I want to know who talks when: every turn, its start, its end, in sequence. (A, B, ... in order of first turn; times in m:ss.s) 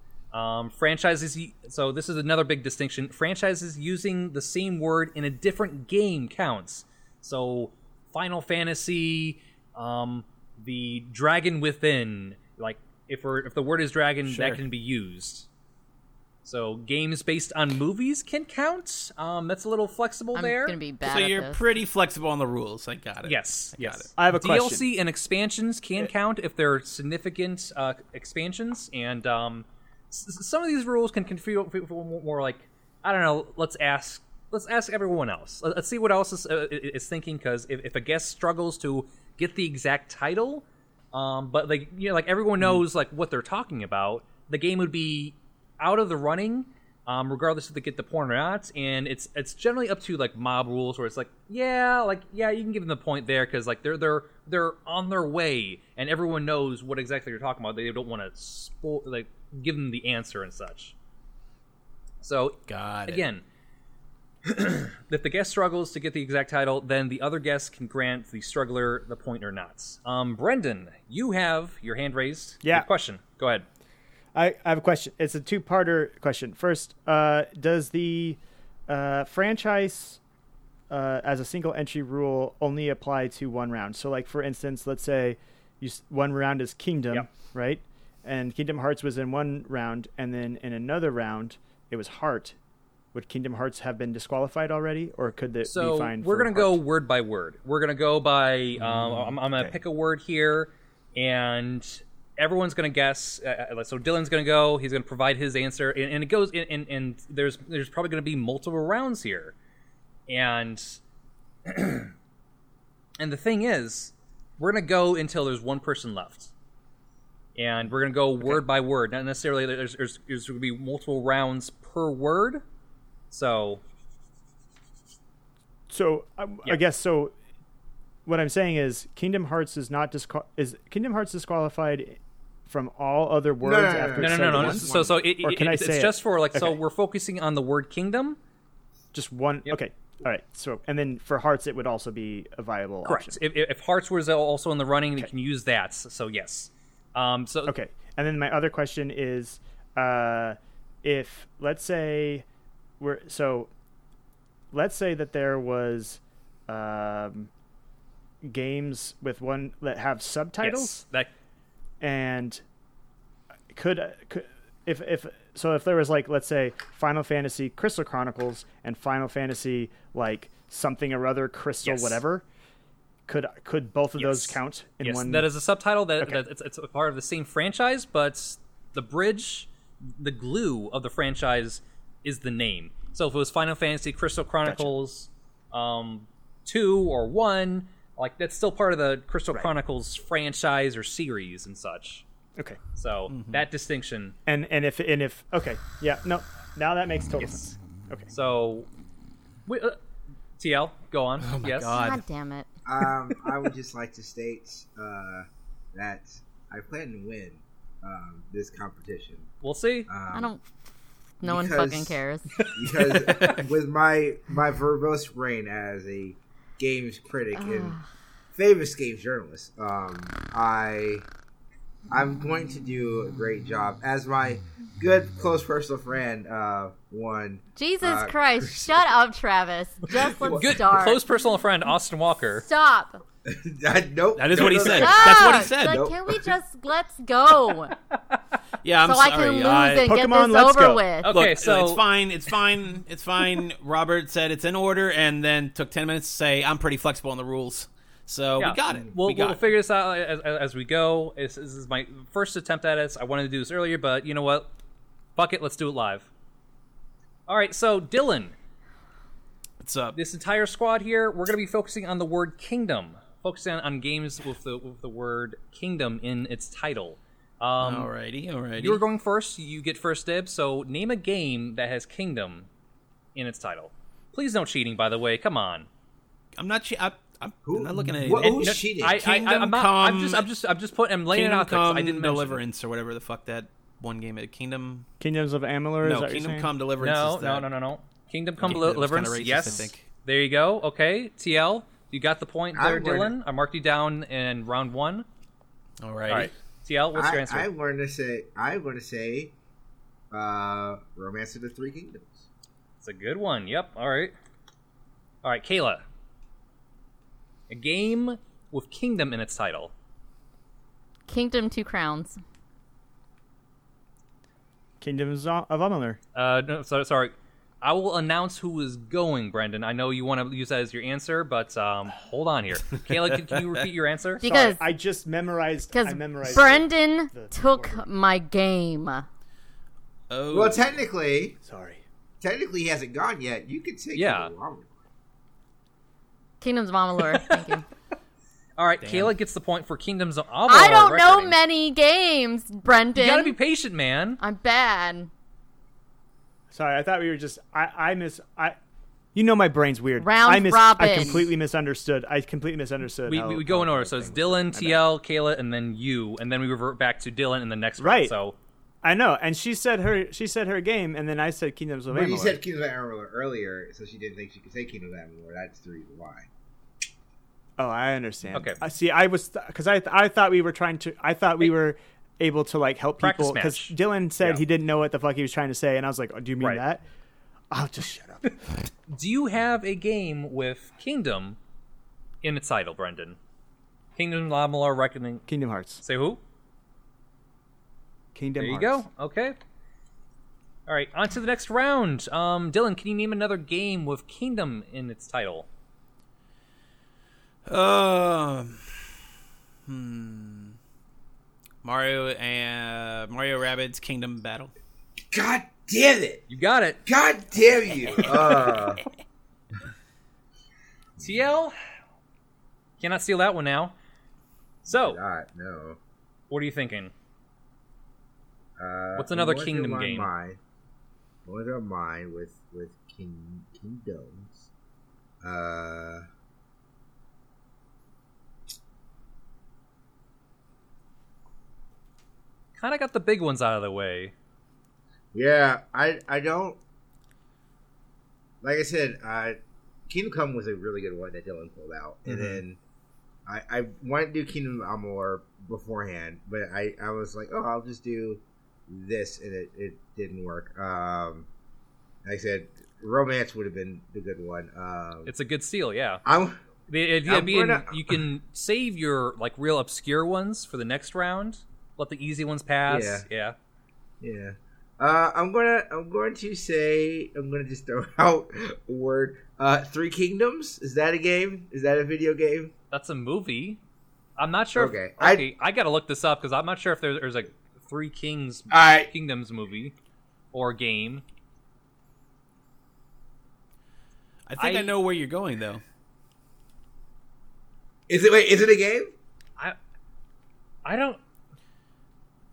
0:00.3-0:15.5 A
0:14.3-0:14.6 B
0:16.4-0:20.8 A
0:20.3-0:21.6 C
0:21.0-0:24.1 B
0:23.2-1:00.9 A
0:24.2-0:24.8 D
1:02.2-1:03.4 A
1:02.7-1:03.2 B
1:04.4-1:13.6 A
1:14.3-1:20.2 D
1:20.9-1:32.6 D
1:33.1-1:36.8 D
1:35.6-1:49.5 A
1:50.3-1:51.0 A
1:51.6-1:52.1 A
1:53.2-1:56.5 A
1:57.6-2:02.6 A
2:03.3-2:03.8 A
2:05.9-2:07.3 D
2:08.2-2:16.8 D
2:13.6-2:15.2 E
2:14.2-2:18.4 A
2:19.1-2:23.4 D
2:23.0-2:27.7 A
2:27.7-2:32.4 D
2:33.0-2:33.7 D
2:34.7-2:37.5 D
2:38.4-2:41.0 D
2:40.6-2:41.3 A
2:42.0-2:42.6 D
2:43.7-2:52.4 D
2:51.8-2:52.2 A
2:53.3-2:55.5 D
2:54.2-3:12.2 A
3:04.6-3:04.9 D
3:13.0-3:14.4 A
3:13.3-3:13.6 B
3:14.5-3:18.3 D
3:17.4-3:17.8 A
3:18.3-3:18.9 A
3:19.6-3:20.0 A
3:20.6-3:22.0 A
3:21.4-3:22.2 B
3:21.9-3:22.7 C
3:22.8-3:29.5 E
3:29.6-3:30.1 A
3:30.1-3:30.5 E
3:30.3-3:30.6 C
3:31.4-3:32.5 C
3:31.4-3:32.2 E
3:32.7-3:38.0 E
3:33.1-3:33.6 B
3:37.5-3:38.0 C
3:38.5-3:41.2 E
3:42.1-3:49.0 E
3:47.8-3:51.2 C
3:50.2-3:50.7 E
3:50.5-3:52.6 A
3:52.6-3:53.2 C
3:53.5-3:56.5 E
3:54.4-3:56.1 B
3:54.8-3:57.9 C
3:58.1-3:58.4 A
3:58.8-4:00.1 B
3:59.0-4:01.3 C
4:00.0-4:01.0 D
4:01.2-4:02.0 A
4:01.2-4:09.6 B
4:08.6-4:14.7 A
4:15.4-4:16.3 A
4:17.5-4:18.5 A
4:19.8-4:20.2 B
4:20.1-4:28.1 A
4:27.8-4:29.0 B
4:28.8-4:32.7 A
4:33.3-4:35.9 A
4:36.6-4:40.5 B
4:37.6-4:39.2 E
4:38.4-4:42.6 A
4:41.3-4:45.1 B
4:45.2-4:46.7 D
4:46.0-4:47.7 B
4:47.0-4:55.2 A
4:48.6-4:50.1 B
4:52.7-4:53.3 E
4:56.0-4:56.5 B
4:56.3-4:57.7 A
4:57.1-4:59.5 E
5:00.3-5:02.4 E
5:03.0-5:04.3 A
5:05.4-5:06.0 A
5:07.7-5:09.9 A
5:11.3-5:12.4 C
5:15.0-5:16.2 D
5:16.3-5:24.4 A
5:23.1-5:23.6 B
5:24.4-5:24.9 C
5:24.4-5:28.0 D
5:25.9-5:29.3 C
5:30.3-5:31.0 B
5:30.5-5:31.6 E
5:31.6-5:32.0 D
5:32.4-5:34.9 E
5:34.1-5:34.5 A
5:36.6-5:37.8 C
5:37.3-5:37.8 A
5:38.8-5:41.6 A
5:39.0-5:39.3 B
5:40.7-5:43.6 C
5:43.1-5:44.4 A
5:44.4-5:45.3 C
5:46.7-5:48.8 D
5:49.3-5:55.0 D
5:50.2-5:51.4 C
5:53.2-5:58.6 A
5:58.0-5:58.3 D
5:59.0-6:02.6 D
6:02.1-6:06.5 E
6:07.8-6:17.0 D
6:08.5-6:08.8 A
6:13.2-6:14.6 A
6:17.7-6:18.6 D
6:19.1-6:21.6 A
6:22.4-6:23.4 A
6:24.2-6:25.4 A
6:25.5-6:26.0 D
6:26.0-6:26.4 A
6:28.3-6:29.0 D
6:28.6-6:29.6 A
6:30.9-6:35.7 A
6:37.6-6:38.9 B
6:39.9-6:40.8 B
6:41.8-6:44.7 B
6:45.3-6:46.5 E
6:46.5-6:47.0 A
6:47.0-6:49.0 E
6:48.2-6:48.8 B
6:51.2-6:51.8 A
6:53.0-6:53.9 A
6:54.8-6:55.2 A
6:54.8-6:56.0 E
6:56.5-6:57.1 A
6:58.8-7:00.6 E
6:59.2-7:00.3 A
7:01.4-7:04.7 E
7:05.4-7:06.2 E
7:12.8-7:14.3 A
7:15.3-7:16.8 E
7:18.6-7:19.6 E
7:20.1-7:22.8 E
7:22.3-7:22.6 B
7:23.4-7:31.5 E
7:32.2-7:35.3 E
7:35.2-7:36.2 A
7:36.2-7:36.7 E
7:36.9-7:43.5 A
7:37.2-7:38.2 E
7:42.9-7:43.3 E
7:44.2-7:52.7 E
7:52.9-7:53.8 A
7:54.4-7:59.9 A
7:54.7-7:55.5 E
7:58.7-7:59.1 E
8:00.5-8:01.2 A
8:04.5-8:05.8 B
8:04.6-8:04.9 A
8:08.1-8:09.1 E
8:10.8-8:11.2 A